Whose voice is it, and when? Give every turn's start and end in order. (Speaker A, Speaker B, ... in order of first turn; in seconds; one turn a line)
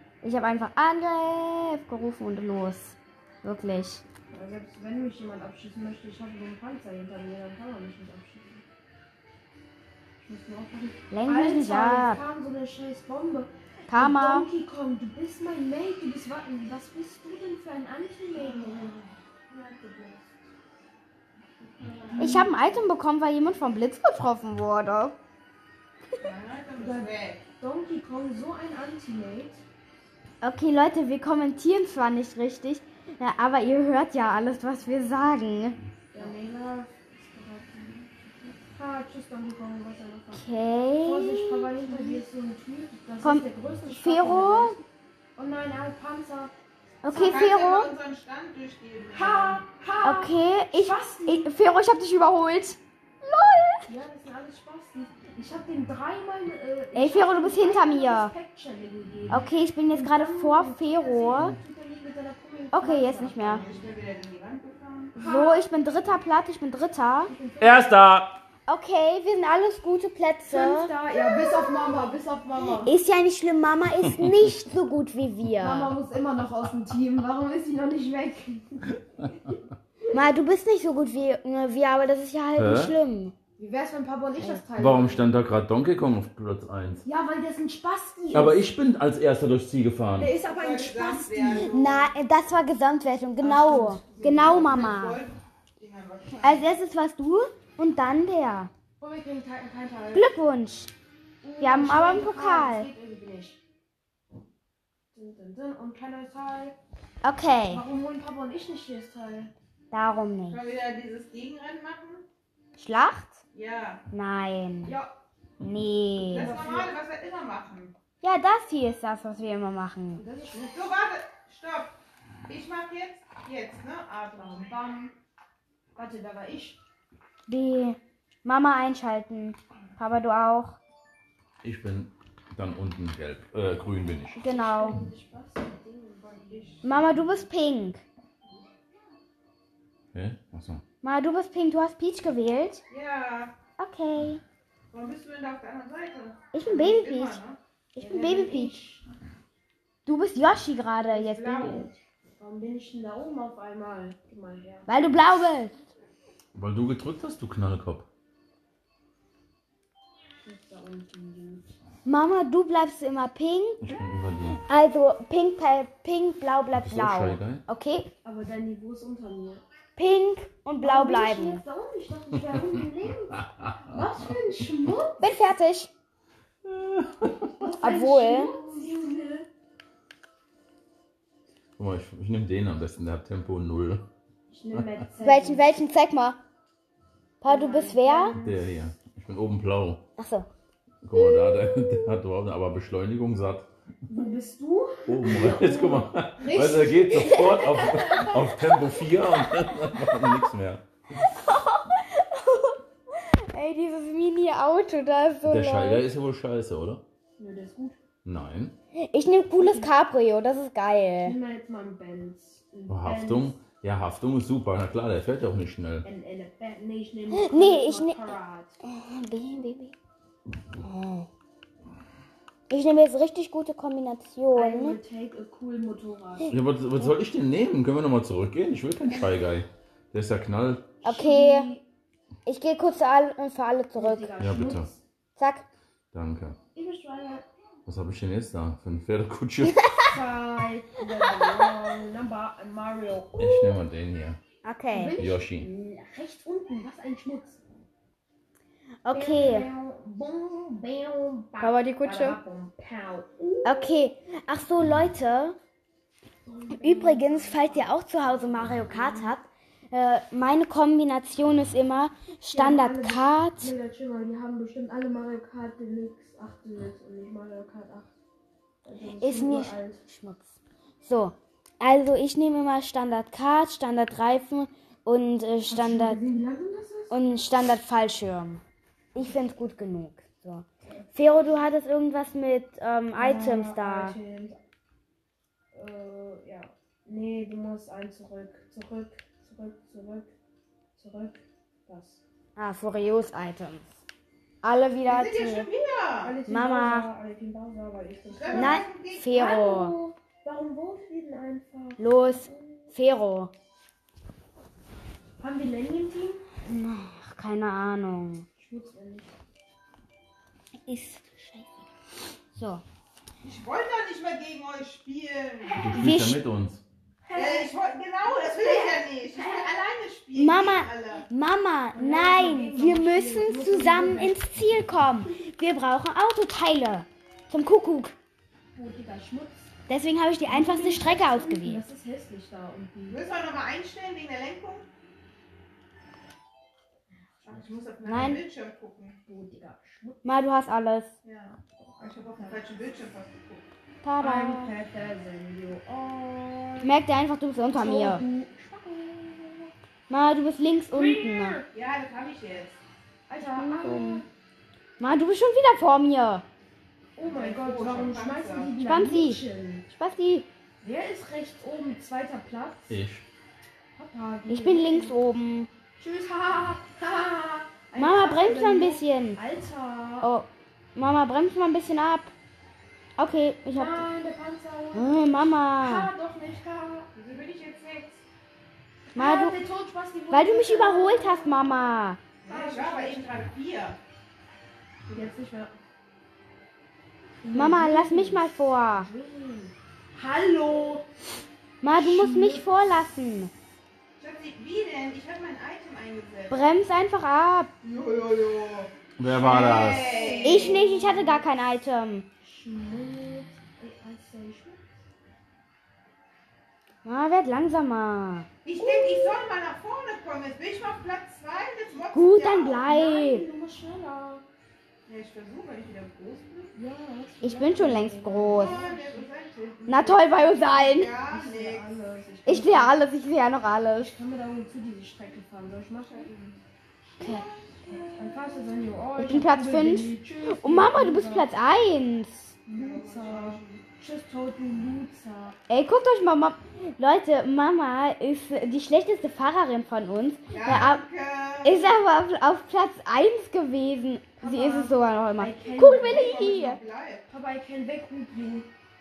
Speaker A: 0.2-4.0
Speaker B: 4.3-8.7
Speaker B: 10.2-19.0
Speaker A: 11.1-12.2
Speaker A: 13.9-14.5
Speaker C: 18.4-20.1
Speaker B: 19.8-20.3
Speaker C: 21.8-22.5
Speaker B: 21.9-22.8
Speaker A: 22.2-25.2
Speaker C: 26.2-27.4
Speaker B: 26.8-29.6
Speaker A: 30.4-35.8
Speaker B: 36.1-40.4
Speaker A: 40.3-42.2
Speaker B: 41.0-44.8
Speaker A: 43.2-44.8
Speaker B: 45.4-46.5
Speaker A: 47.0-47.9
Speaker B: 47.0-47.5
Speaker C: 47.1-49.6
Speaker B: 49.1-51.5
Speaker A: 50.0-53.9
Speaker B: 53.9-63.9
Speaker A: 57.0-58.3
Speaker A: 59.3-61.5
Speaker A: 62.7-63.6
Speaker C: 63.5-65.2
Speaker B: 65.1-65.7
Speaker A: 65.2-67.3
Speaker B: 67.3-67.9
Speaker D: 67.6-68.4
Speaker A: 68.7-71.7
Speaker B: 70.5-73.0
Speaker A: 72.8-75.9
Speaker B: 75.6-79.6
Speaker A: 80.1-83.3
Speaker D: 82.6-83.0
Speaker B: 83.6-85.3
Speaker D: 84.8-87.0
Speaker B: 87.0-88.6
Speaker D: 88.3-90.3
Speaker B: 90.2-91.7
Speaker C: 90.4-92.1
Speaker A: 91.5-95.2
Speaker B: 93.4-94.2
Speaker C: 93.8-96.7
Speaker A: 96.4-98.7
Speaker B: 99.0-100.3
Speaker A: 100.1-100.9
Speaker B: 101.4-103.6
Speaker A: 101.6-102.9
Speaker B: 105.1-106.8
Speaker A: 107.2-107.8
Speaker B: 107.7-109.5
Speaker A: 109.9-110.7
Speaker C: 110.5-112.3
Speaker A: 112.8-113.4
Speaker C: 113.5-114.0
Speaker A: 114.1-114.9
Speaker B: 114.8-115.1
Speaker A: 115.6-116.5
Speaker C: 116.3-118.0
Speaker B: 116.3-117.0
Speaker A: 118.2-120.2
Speaker B: 120.2-120.8
Speaker C: 120.7-122.0
Speaker C: 122.5-124.7
Speaker B: 124.3-125.1
Speaker B: 126.0-126.8
Speaker A: 127.5-130.8
Speaker D: 131.6-134.4
Speaker B: 134.4-136.9
Speaker A: 134.4-135.0
Speaker C: 136.5-137.3
Speaker A: 136.8-138.0
Speaker D: 140.1-140.8
Speaker A: 141.0-142.8
Speaker C: 142.9-143.6
Speaker A: 143.8-144.4
Speaker C: 144.9-147.6
Speaker A: 146.5-147.4
Speaker A: 147.9-148.8
Speaker B: 148.0-149.0
Speaker A: 150.1-151.9
Speaker B: 151.1-154.9
Speaker A: 154.9-155.8
Speaker D: 156.6-158.1
Speaker B: 160.4-161.7
Speaker A: 162.1-164.0
Speaker D: 163.8-164.6
Speaker A: 164.6-168.1
Speaker D: 166.8-167.6
Speaker B: 168.2-169.6
Speaker A: 170.0-171.6
Speaker B: 170.8-175.3
Speaker A: 175.2-175.9
Speaker D: 176.7-177.5
Speaker B: 177.6-179.5
Speaker A: 177.8-178.5
Speaker D: 181.8-184.1
Speaker B: 184.5-185.7
Speaker D: 184.7-185.0
Speaker A: 185.2-186.4
Speaker A: 187.4-188.4
Speaker B: 187.4-188.7
Speaker D: 188.3-190.1
Speaker A: 190.2-190.5
Speaker D: 191.0-193.7
Speaker A: 191.2-192.2
Speaker B: 194.1-198.6
Speaker D: 195.1-200.8
Speaker A: 197.2-198.3
Speaker A: 201.2-206.0
Speaker D: 205.4-207.0
Speaker B: 207.4-208.0
Speaker D: 208.2-208.8
Speaker A: 209.0-211.4
Speaker B: 209.6-209.9
Speaker B: 211.2-213.6
Speaker D: 212.9-216.1
Speaker B: 216.0-218.8
Speaker A: 217.3-218.3
Speaker A: 218.8-219.9
Speaker A: 220.8-221.3
Speaker A: 222.7-225.0
Speaker B: 224.5-227.1
Speaker D: 226.5-230.9
Speaker B: 231.0-231.8
Speaker A: 231.0-231.7
Speaker A: 232.5-234.3
Speaker B: 234.0-235.0
Speaker D: 234.4-234.9
Speaker A: 235.4-235.7
Speaker D: 236.1-236.6
Speaker B: 236.8-237.5
Speaker D: 237.9-239.8
Speaker A: 239.6-240.2
Speaker B: 240.1-243.8
Speaker A: 241.3-241.7
Speaker D: 243.4-244.4
Speaker A: 244.6-245.2
Speaker B: 244.9-247.6
Speaker D: 245.2-245.7
Speaker A: 249.0-249.7
Speaker B: 249.1-254.0
Speaker A: 251.6-252.4
Speaker A: 253.7-255.6
Speaker B: 256.5-259.3
Speaker A: 256.8-263.7
Speaker B: 262.5-268.1
Speaker B: 268.8-270.0
Speaker A: 269.2-270.5
Speaker A: 271.0-276.2
Speaker B: 275.7-277.1
Speaker A: 277.1-278.6
Speaker A: 279.1-284.1
Speaker B: 283.1-284.6
Speaker B: 285.7-290.3
Speaker B: 291.0-292.2
Speaker A: 292.6-293.9
Speaker A: 294.6-295.7
Speaker C: 295.1-296.4
Speaker B: 296.2-302.9
Speaker A: 296.5-297.1
Speaker C: 298.3-299.4
Speaker A: 298.5-299.9
Speaker A: 302.0-303.5
Speaker B: 305.4-306.4
Speaker A: 306.6-308.4
Speaker B: 308.6-309.3
Speaker A: 310.9-311.8
Speaker A: 312.5-312.8
Speaker C: 313.4-315.9
Speaker B: 315.6-316.2
Speaker D: 315.8-316.8
Speaker A: 316.0-316.4
Speaker B: 317.2-317.7
Speaker C: 317.4-321.3
Speaker B: 318.4-319.8
Speaker A: 320.4-328.1
Speaker B: 321.9-324.4
Speaker B: 328.7-329.7
Speaker A: 329.9-331.8
Speaker B: 330.5-333.2
Speaker C: 333.1-334.9
Speaker C: 337.4-339.2
Speaker A: 338.1-338.4
Speaker B: 339.3-340.4
Speaker A: 340.2-341.1
Speaker C: 341.2-343.7
Speaker B: 341.8-342.6
Speaker A: 344.0-344.7
Speaker B: 344.2-346.9
Speaker A: 346.8-348.2
Speaker B: 347.7-349.7
Speaker A: 350.1-351.6
Speaker B: 350.9-351.7
Speaker C: 351.7-352.8
Speaker B: 353.3-354.3
Speaker A: 353.4-354.2
Speaker A: 355.0-356.4
Speaker B: 357.2-359.9
Speaker C: 357.2-358.8
Speaker A: 358.8-360.5
Speaker B: 360.8-363.0
Speaker D: 362.9-363.3
Speaker B: 363.9-365.1
Speaker A: 364.5-365.7
Speaker B: 366.0-370.3
Speaker A: 368.0-369.4
Speaker A: 370.2-372.3
Speaker A: 373.2-374.1
Speaker B: 373.7-377.1
Speaker A: 374.9-376.1
Speaker C: 377.1-378.2
Speaker B: 379.1-381.9
Speaker A: 379.1-379.6
Speaker A: 380.3-382.2
Speaker C: 382.4-384.0
Speaker B: 382.4-383.4
Speaker B: 385.1-385.8
Speaker B: 387.4-391.1
Speaker A: 387.5-389.1
Speaker A: 391.8-393.5
Speaker B: 391.9-392.9
Speaker C: 394.2-396.6
Speaker A: 396.5-397.7
Speaker C: 397.8-400.8
Speaker D: 399.2-400.1
Speaker B: 399.8-401.4
Speaker A: 400.4-402.3
Speaker B: 402.4-404.9
Speaker A: 407.1-408.5
Speaker C: 408.6-412.8
Speaker B: 408.8-409.4
Speaker A: 412.1-413.4
Speaker B: 412.8-414.4
Speaker C: 415.1-416.7
Speaker B: 416.7-419.3
Speaker A: 417.4-418.8
Speaker C: 418.5-421.9
Speaker A: 419.9-421.1
Speaker B: 421.3-423.0
Speaker A: 422.5-424.1
Speaker B: 424.0-426.3
Speaker C: 426.1-426.6
Speaker A: 427.2-427.5
Speaker C: 427.2-428.4
Speaker B: 427.9-431.5
Speaker A: 429.2-432.5
Speaker B: 432.7-435.6
Speaker C: 432.8-433.9
Speaker A: 435.7-441.0
Speaker C: 440.5-441.9
Speaker A: 441.6-446.8
Speaker B: 444.4-446.3
Speaker C: 446.0-447.3
Speaker B: 447.3-448.7